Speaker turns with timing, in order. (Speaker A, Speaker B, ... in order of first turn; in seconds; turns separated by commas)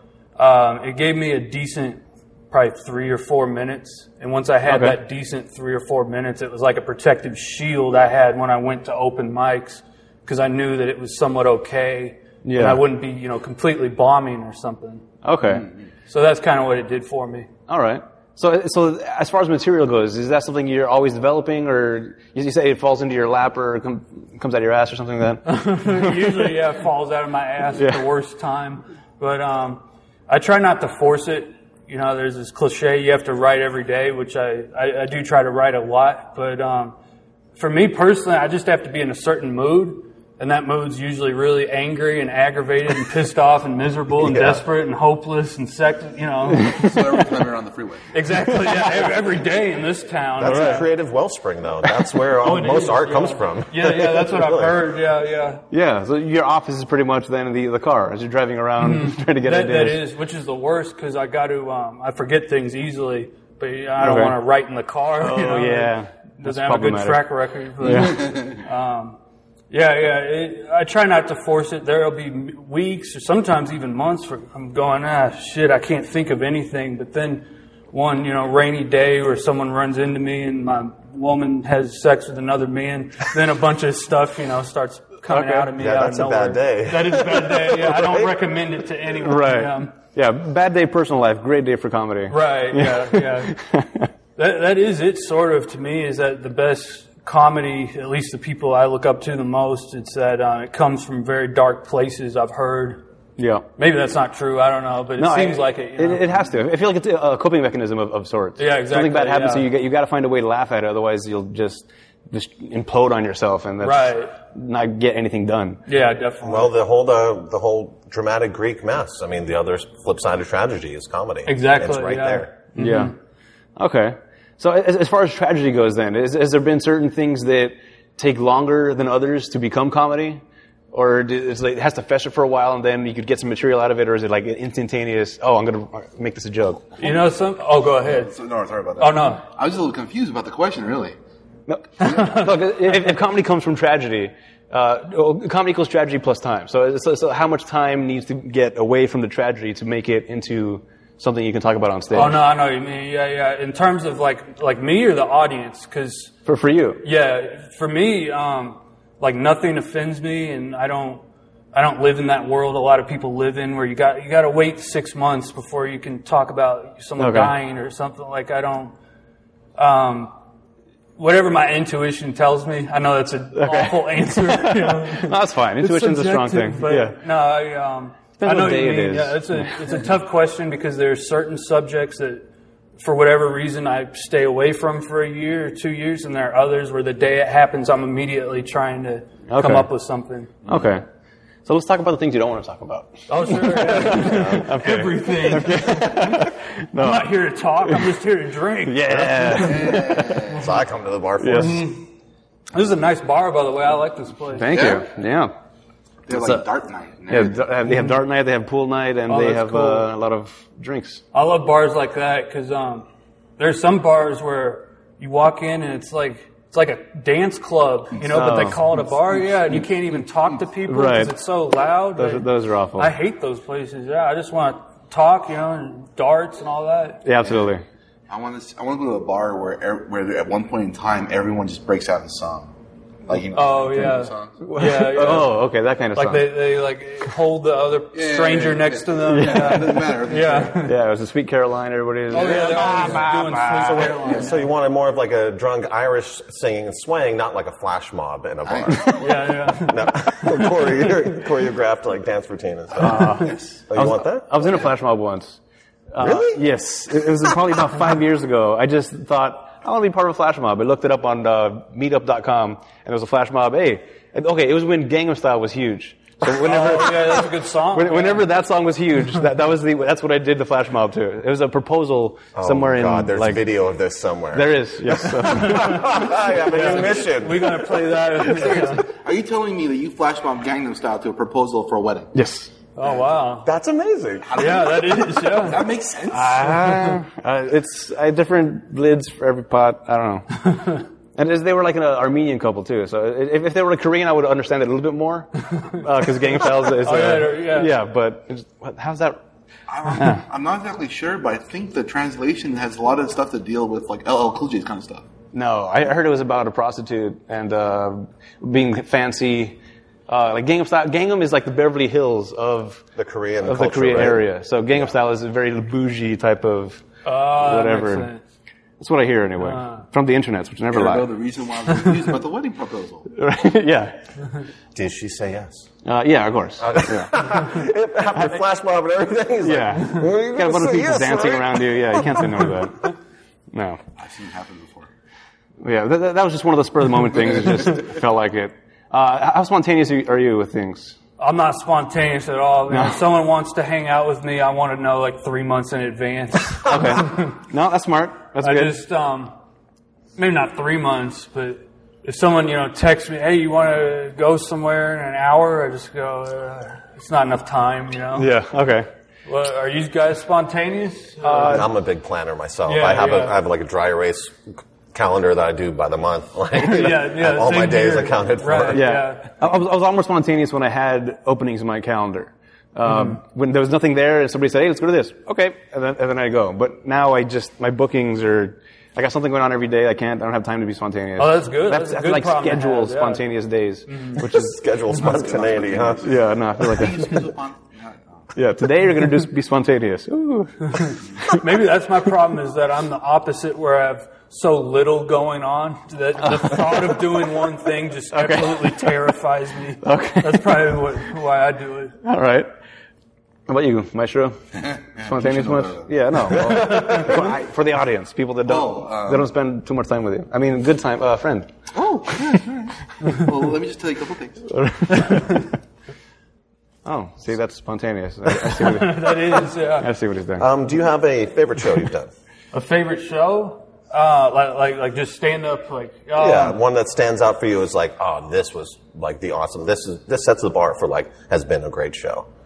Speaker A: 0.4-15.1, Speaker B: 4.7-5.0, Speaker B: 12.4-12.8, Speaker B: 15.2-15.7, Speaker A: 16.1-17.5, Speaker B: 17.7-26.5, Speaker A: 25.4-37.0, Speaker B: 27.8-28.1, Speaker A: 37.6-46.8, Speaker C: 44.2-44.6, Speaker D: 46.6-48.1, Speaker B: 46.6-47.0, Speaker A: 48.1-50.9, Speaker C: 50.4-54.8, Speaker A: 52.4-55.6, Speaker B: 55.7-60.0, Speaker A: 58.8-69.2, Speaker B: 64.0-64.4, Speaker B: 65.2-67.3, Speaker B: 67.8-68.5, Speaker A: 69.7-89.9, Speaker B: 85.3-85.7, Speaker C: 85.8-88.4, Speaker B: 89.2-94.1, Speaker A: 92.3-93.5, Speaker A: 94.4-103.0, Speaker B: 103.4-103.7, Speaker A: 103.8-106.5, Speaker B: 105.2-115.8, Speaker A: 108.6-109.7, Speaker A: 113.8-114.3, Speaker A: 115.9-116.7, Speaker C: 116.4-122.5, Speaker A: 121.5-123.2, Speaker B: 122.8-123.1, Speaker B: 123.8-130.4, Speaker B: 130.9-137.0, Speaker A: 137.0-138.3, Speaker D: 138.1-141.2, Speaker A: 139.0-139.4, Speaker B: 141.7-152.4, Speaker A: 142.0-142.5, Speaker A: 152.1-156.3, Speaker B: 156.5-157.1, Speaker A: 157.0-168.9, Speaker B: 167.2-167.6, Speaker A: 169.8-170.3, Speaker A: 171.2-182.5, Speaker B: 173.6-177.2, Speaker B: 178.4-179.8, Speaker A: 183.0-190.5, Speaker B: 189.5-189.9, Speaker B: 190.7-191.0, Speaker B: 191.7-198.1, Speaker A: 193.3-199.9, Speaker C: 194.1-194.6, Speaker B: 198.9-200.4, Speaker D: 199.6-200.6, Speaker C: 200.5-201.9, Speaker B: 201.4-201.8, Speaker A: 201.6-202.1, Speaker A: 202.7-204.9, Speaker B: 204.5-205.5, Speaker D: 204.7-205.1, Speaker D: 206.3-207.7, Speaker B: 206.3-206.6, Speaker B: 207.3-211.2, Speaker A: 209.3-210.1, Speaker A: 211.3-213.1, Speaker A: 213.6-227.2, Speaker B: 218.2-218.8, Speaker B: 220.9-221.3, Speaker B: 222.2-223.1, Speaker B: 227.2-227.8, Speaker D: 228.3-232.7, Speaker D: 233.3-234.6, Speaker A: 233.5-235.6, Speaker B: 234.6-236.6, Speaker A: 236.1-241.0, Speaker D: 238.1-240.8, Speaker B: 239.3-240.1, Speaker B: 240.8-244.1, Speaker D: 242.3-244.5, Speaker A: 242.3-244.7, Speaker C: 243.9-249.2, Speaker D: 248.7-249.2, Speaker A: 249.2-251.1, Speaker C: 249.8-254.5, Speaker B: 253.0-255.6, Speaker B: 256.1-273.7, Speaker C: 256.2-256.6, Speaker A: 266.5-268.5, Speaker C: 272.6-277.9, Speaker B: 274.5-276.3, Speaker A: 275.4-279.0, Speaker D: 278.4-282.3, Speaker B: 282.3-282.7, Speaker A: 283.0-283.7, Speaker C: 283.6-284.8, Speaker D: 284.4-286.9, Speaker A: 284.6-285.9, Speaker B: 286.3-299.4, Speaker A: 286.9-287.2, Speaker A: 296.9-297.9, Speaker D: 299.9-305.3, Speaker B: 300.1-300.4, Speaker B: 305.5-313.1, Speaker C: 313.2-315.1, Speaker B: 313.6-317.0, Speaker A: 317.2-318.4, Speaker B: 317.6-318.3, Speaker B: 319.0-321.3, Speaker A: 319.6-320.0, Speaker D: 320.9-323.3, Speaker B: 323.3-324.1, Speaker C: 324.9-325.9, Speaker B: 326.1-327.3, Speaker C: 326.8-332.7, Speaker B: 329.6-333.1, Speaker B: 333.7-334.0, Speaker D: 334.2-335.1, Speaker B: 335.8-341.2, Speaker A: 341.4-347.6, Speaker B: 342.9-343.2, Speaker B: 346.9-349.0, Speaker A: 348.6-349.5, Speaker A: 350.4-358.5, Speaker B: 358.4-359.1, Speaker A: 359.5-361.9, Speaker B: 361.4-361.9, Speaker C: 361.6-369.1, Speaker A: 362.9-363.6, Speaker A: 366.7-369.5, Speaker B: 368.9-384.8, Speaker A: 373.1-373.4, Speaker A: 381.4-383.4, Speaker A: 384.1-384.4, Speaker C: 384.4-386.4, Speaker D: 385.3-388.4, Speaker B: 386.2-387.5, Speaker B: 388.6-391.6, Speaker A: 390.9-402.2, Speaker B: 398.3-399.1, Speaker B: 400.0-401.0, Speaker B: 402.2-402.7, Speaker B: 403.7-411.7, Speaker D: 404.8-407.1, Speaker A: 406.9-407.2, Speaker D: 408.6-409.5, Speaker D: 411.9-414.7, Speaker B: 414.7-415.7, Speaker B: 417.1-420.7, Speaker A: 418.7-420.1, Speaker C: 420.6-422.3, Speaker A: 422.7-426.8, Speaker C: 426.4-432.5